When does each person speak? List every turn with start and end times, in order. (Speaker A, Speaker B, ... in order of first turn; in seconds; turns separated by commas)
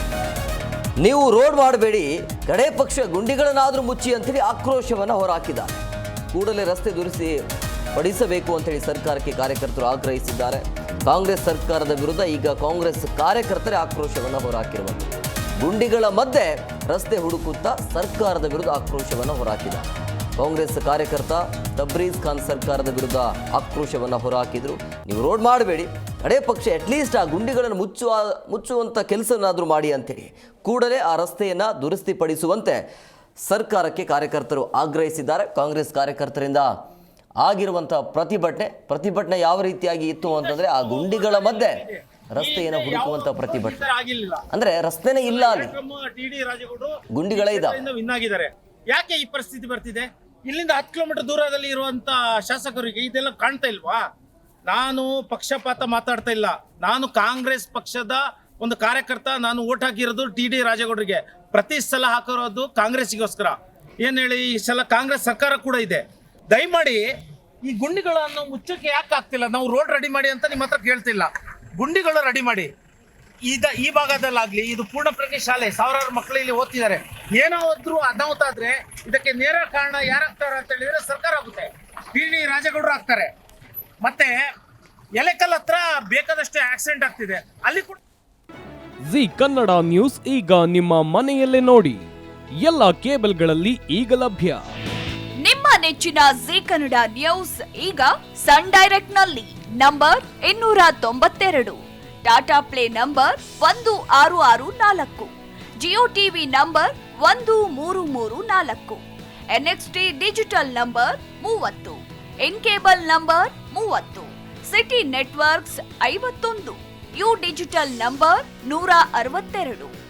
Speaker A: 1.0-5.8, Speaker A: 6.3-7.4, Speaker A: 8.0-32.8, Speaker A: 33.5-36.7, Speaker A: 37.4-41.8, Speaker B: 40.2-44.5, Speaker A: 42.3-43.8, Speaker A: 44.5-45.7, Speaker B: 45.3-54.0, Speaker A: 47.1-47.8, Speaker B: 54.7-67.0, Speaker B: 67.7-72.7, Speaker B: 73.5-83.3, Speaker B: 84.0-84.4, Speaker B: 85.2-88.0, Speaker C: 89.1-92.0, Speaker C: 92.6-94.7, Speaker D: 95.4-109.0, Speaker D: 109.5-119.9